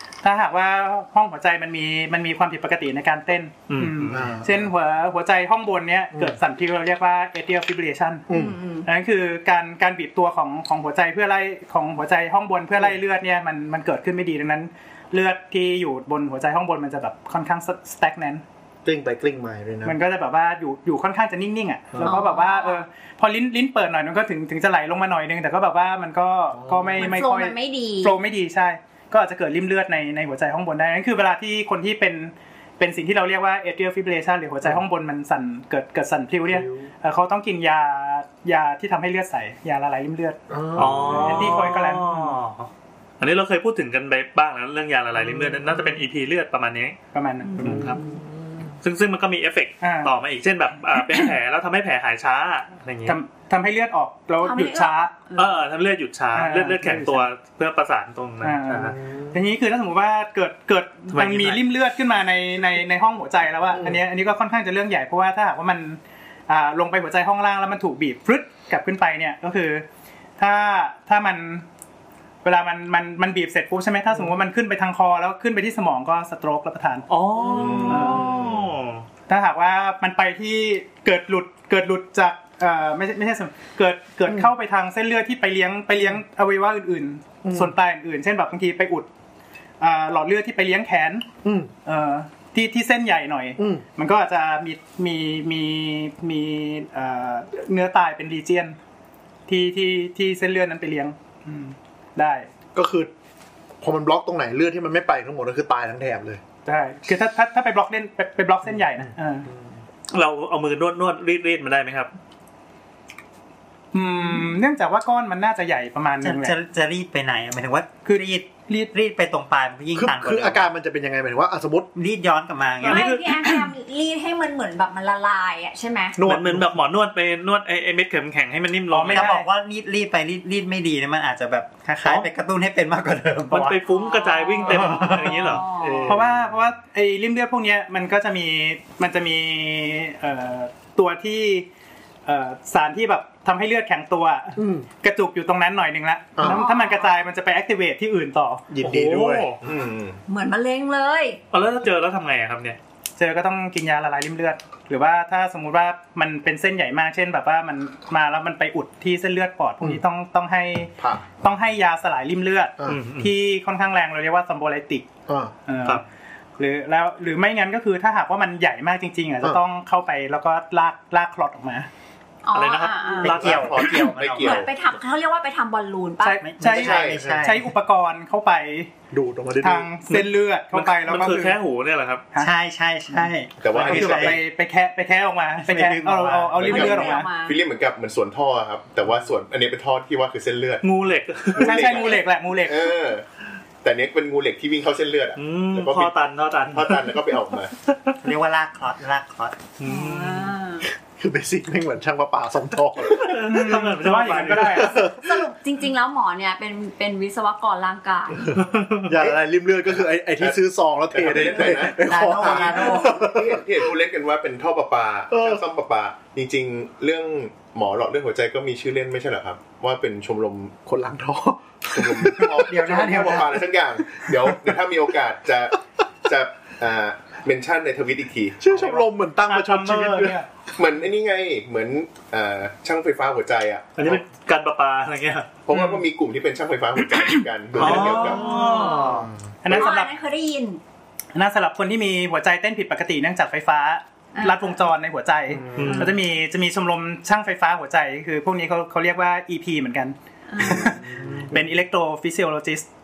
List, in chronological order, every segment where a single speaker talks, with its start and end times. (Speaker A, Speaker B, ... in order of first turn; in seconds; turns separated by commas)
Speaker A: 0.2-8.3, Speaker B: 3.7-4.2, Speaker C: 4.1-4.7, Speaker C: 6.1-6.4, Speaker D: 8.3-8.9, Speaker C: 8.3-8.6, Speaker A: 8.8-18.4, Speaker C: 18.9-20.0, Speaker A: 19.8-40.4, Speaker C: 21.9-22.2, Speaker D: 22.0-22.8, Speaker C: 26.5-27.2, Speaker D: 27.0-28.1, Speaker C: 36.5-36.9, Speaker C: 40.5-41.7, Speaker B: 40.8-47.0, Speaker A: 41.1-42.4, Speaker C: 45.2-46.0, Speaker A: 47.1-47.8, Speaker D: 47.5-47.9, Speaker B: 47.6-48.0, Speaker C: 47.6-48.8, Speaker B: 48.8-53.2, Speaker A: 49.8-50.1, Speaker A: 53.0-55.1, Speaker D: 54.4-55.6, Speaker B: 55.4-59.0, Speaker A: 56.3-57.3, Speaker A: 58.4-69.8, Speaker C: 58.9-59.4, Speaker B: 61.1-61.6, Speaker C: 63.7-64.0, Speaker A: 70.4-71.7, Speaker A: 72.4-77.1, Speaker B: 77.1-79.0, Speaker E: 77.4-78.7, Speaker A: 77.8-78.3, Speaker A: 79.3-89.1, Speaker C: 87.4-87.7, Speaker A: 89.8-91.3, Speaker C: 91.4-91.7, Speaker A: 91.8-98.8, Speaker C: 93.6-93.8, Speaker A: 99.5-102.5, Speaker C: 102.8-103.1, Speaker C: 103.8-106.4, Speaker A: 106.7-109.5, Speaker C: 108.7-109.7, Speaker B: 110.1-112.1, Speaker A: 113.9-116.6, Speaker F: 116.2-120.7, Speaker A: 118.1-118.9, Speaker C: 119.9-121.9, Speaker F: 121.9-123.0, Speaker B: 122.8-123.7, Speaker A: 122.9-123.1, Speaker D: 122.9-126.2, Speaker C: 126.2-126.8, Speaker B: 126.2-129.2, Speaker A: 128.9-129.5, Speaker F: 129.0-133.7, Speaker B: 133.5-136.1, Speaker A: 133.5-133.8, Speaker D: 133.8-136.1, Speaker C: 134.7-135.1, Speaker F: 134.9-135.6, Speaker C: 135.8-136.5, Speaker A: 136.0-141.7, Speaker A: 142.3-148.6, Speaker C: 144.6-144.9, Speaker C: 146.4-146.6, Speaker D: 146.4-147.1, Speaker C: 148.7-149.5, Speaker B: 148.8-149.6, Speaker E: 149.6-150.2, Speaker D: 150.3-151.4, Speaker B: 151.5-152.8, Speaker A: 153.2-165.1, Speaker C: 162.8-163.0, Speaker B: 162.9-163.3, Speaker C: 165.3-165.6, Speaker A: 165.7-166.0, Speaker A: 166.6-171.9, Speaker D: 172.4-173.3, Speaker B: 172.5-173.8, Speaker F: 173.2-174.8, Speaker E: 173.2-174.7, Speaker D: 173.9-176.4, Speaker A: 176.2-178.9, Speaker F: 176.4-177.7, Speaker E: 176.7-177.3, Speaker C: 177.1-177.4, Speaker C: 179.1-179.9, Speaker A: 179.6-181.6, Speaker B: 180.1-182.3, Speaker F: 182.4-184.4, Speaker A: 183.1-187.3, Speaker E: 183.6-184.4, Speaker F: 185.6-186.9, Speaker E: 186.6-190.9, Speaker D: 186.7-187.6, Speaker B: 190.8-191.8, Speaker E: 191.5-193.3, Speaker A: 191.6-193.0, Speaker D: 191.9-192.2, Speaker E: 193.8-196.2, Speaker B: 195.4-197.3, Speaker E: 196.7-197.7, Speaker B: 197.8-198.2, Speaker F: 198.2-199.6, Speaker B: 199.8-200.6, Speaker D: 199.8-200.9, Speaker C: 201.0-203.9, Speaker B: 203.1-204.9, Speaker A: 203.5-205.0, Speaker C: 204.5-205.5, Speaker D: 205.0-208.5, Speaker C: 208.5-213.9, Speaker B: 208.6-209.3, Speaker E: 211.1-220.8, Speaker F: 211.9-213.3, Speaker C: 215.3-215.6, Speaker C: 220.8-223.3, Speaker E: 221.9-228.6, Speaker F: 222.6-223.7, Speaker C: 224.0-224.8, Speaker C: 228.6-230.4, Speaker A: 228.8-230.5, Speaker E: 230.7-234.2, Speaker B: 234.0-235.5, Speaker E: 235.7-239.8, Speaker B: 237.8-239.3, Speaker A: 237.8-238.7, Speaker C: 237.8-239.3, Speaker D: 238.7-239.1, Speaker A: 239.6-240.2, Speaker D: 239.8-240.8, Speaker A: 241.3-252.9, Speaker D: 244.3-244.9, Speaker C: 245.5-246.0, Speaker B: 245.8-246.2, Speaker D: 250.5-250.9, Speaker C: 250.6-251.6